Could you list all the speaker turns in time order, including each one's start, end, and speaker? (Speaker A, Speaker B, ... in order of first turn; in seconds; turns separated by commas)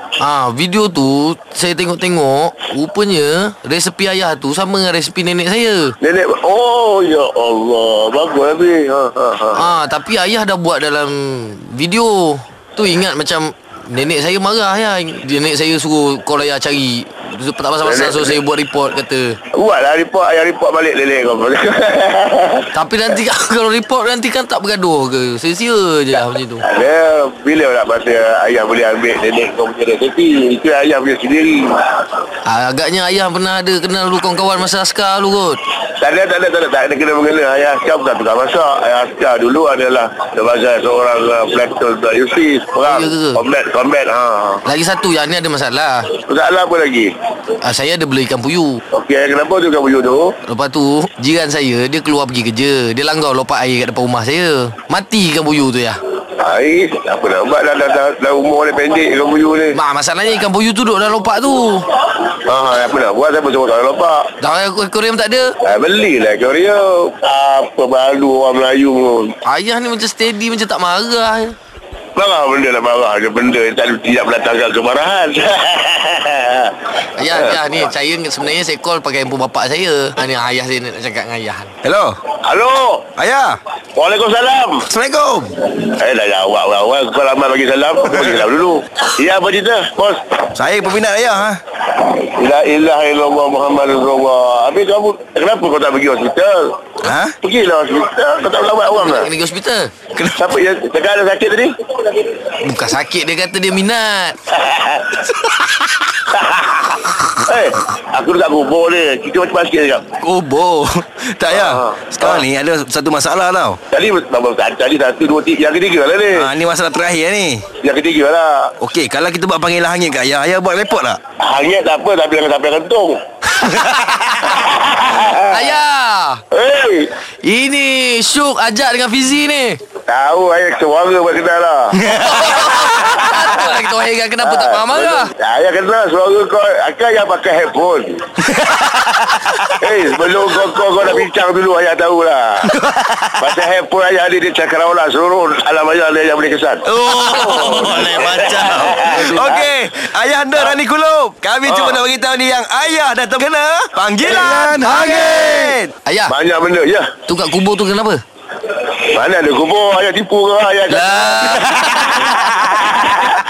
Speaker A: 0.2-5.9, Speaker B: 6.0-9.7, Speaker A: 9.6-19.4, Speaker B: 17.9-18.4, Speaker B: 19.5-22.7, Speaker A: 22.7-26.7, Speaker B: 26.6-32.0, Speaker A: 32.5-35.6, Speaker B: 36.0-44.6, Speaker A: 42.8-43.4, Speaker A: 44.6-46.1, Speaker B: 46.2-47.1, Speaker A: 47.6-48.8, Speaker B: 48.9-50.4, Speaker A: 50.5-56.0, Speaker B: 56.4-59.8, Speaker A: 59.7-61.9, Speaker B: 62.3-64.3, Speaker A: 64.4-65.5, Speaker B: 65.6-69.3, Speaker A: 69.5-71.6, Speaker B: 72.2-76.8, Speaker A: 77.2-81.7, Speaker B: 77.3-77.6, Speaker C: 81.8-82.2, Speaker B: 82.4-83.1, Speaker C: 83.2-83.6, Speaker B: 84.0-84.9, Speaker C: 84.9-85.6, Speaker B: 85.7-90.4, Speaker C: 88.0-88.5, Speaker C: 90.5-91.6, Speaker B: 91.9-96.8, Speaker C: 97.0-97.3, Speaker B: 97.4-99.3, Speaker A: 98.9-99.9, Speaker C: 100.1-100.5, Speaker B: 100.4-102.2, Speaker A: 102.6-104.4, Speaker B: 104.5-105.3, Speaker B: 106.2-110.1, Speaker C: 110.2-113.8, Speaker B: 111.5-112.5, Speaker B: 113.9-116.5, Speaker C: 116.3-117.7, Speaker B: 117.8-118.7, Speaker C: 118.8-121.2, Speaker B: 121.4-123.2, Speaker C: 123.5-124.5, Speaker A: 123.7-126.4, Speaker B: 124.4-125.8, Speaker B: 126.5-127.1, Speaker A: 127.4-129.8, Speaker B: 130.1-132.0, Speaker A: 131.9-135.3, Speaker C: 132.0-133.4, Speaker B: 132.9-133.6, Speaker B: 134.4-138.2, Speaker C: 138.4-139.8, Speaker B: 139.7-142.8, Speaker C: 142.6-143.5, Speaker B: 143.4-149.7, Speaker C: 146.9-155.9, Speaker B: 151.7-152.0, Speaker A: 154.4-156.3, Speaker B: 156.3-157.1, Speaker A: 157.3-158.2, Speaker B: 158.7-162.0, Speaker A: 160.9-162.5, Speaker C: 162.1-162.8